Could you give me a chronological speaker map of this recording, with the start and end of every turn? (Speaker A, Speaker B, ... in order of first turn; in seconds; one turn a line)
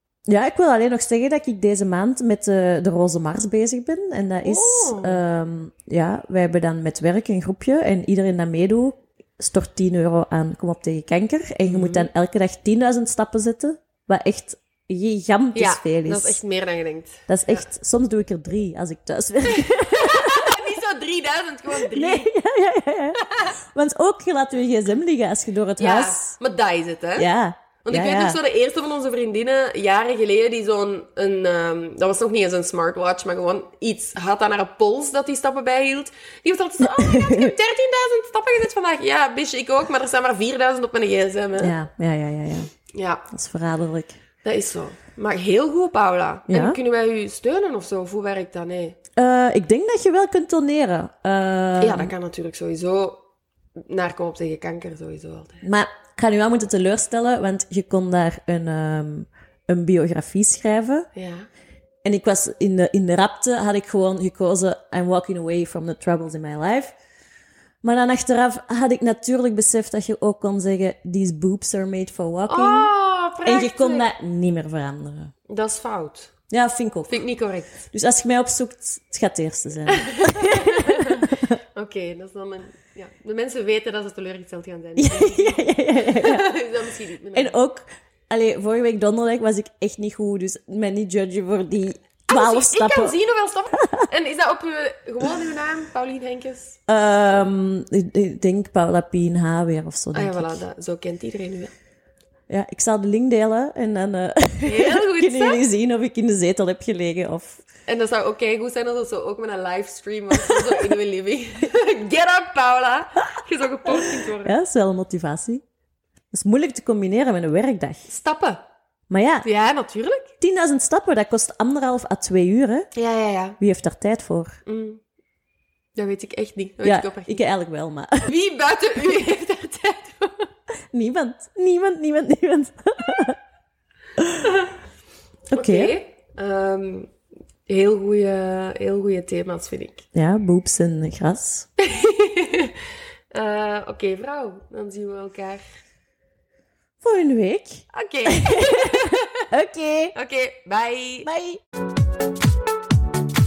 Speaker A: 0.3-16.4
Speaker B: 4.4-5.2
Speaker B: 11.6-12.1
Speaker B: 15.6-17.7
Speaker A: 17.3-20.6
Speaker B: 19.5-22.3
Speaker A: 21.8-26.3
Speaker B: 23.3-23.5
Speaker B: 25.8-27.3
Speaker A: 27.2-28.4
Speaker B: 27.8-41.7
Speaker A: 36.9-37.5
Speaker A: 41.6-42.7
Speaker B: 42.9-43.2
Speaker A: 43.3-44.1
Speaker B: 44.4-49.0
Speaker A: 46.5-46.8
Speaker A: 49.1-52.1
Speaker B: 51.8-53.2
Speaker B: 53.9-55.6
Speaker A: 55.6-61.1
Speaker B: 61.1-61.5
Speaker A: 62.0-66.9
Speaker A: 67.8-72.9
Speaker B: 72.5-74.1
Speaker A: 73.4-75.3
Speaker B: 75.5-76.3
Speaker A: 76.5-77.2
Speaker B: 77.1-77.8
Speaker A: 77.9-81.6
Speaker B: 79.9-87.6
Speaker A: 85.0-86.5
Speaker A: 87.3-93.2
Speaker B: 92.3-96.8
Speaker A: 93.8-94.1
Speaker A: 96.9-100.6
Speaker B: 100.1-101.7
Speaker A: 102.5-107.6
Speaker B: 104.6-105.6
Speaker B: 107.9-114.5
Speaker A: 114.0-115.6
Speaker A: 116.3-118.1
Speaker B: 118.1-118.6
Speaker A: 119.1-119.5
Speaker B: 119.4-120.3
Speaker A: 120.4-122.9
Speaker B: 122.9-123.6
Speaker A: 123.6-124.5
Speaker B: 124.7-125.0
Speaker B: 126.0-127.4
Speaker A: 126.8-128.3
Speaker B: 128.2-130.5
Speaker A: 130.9-133.4
Speaker A: 134.2-134.5
Speaker B: 134.4-134.7
Speaker A: 135.5-135.9
Speaker B: 135.5-137.1
Speaker B: 137.7-140.1
Speaker A: 140.1-141.7
Speaker B: 141.8-142.7
Speaker B: 143.3-145.6
Speaker A: 147.0-150.1
Speaker B: 147.9-149.5
Speaker B: 150.1-151.3
Speaker A: 151.2-151.6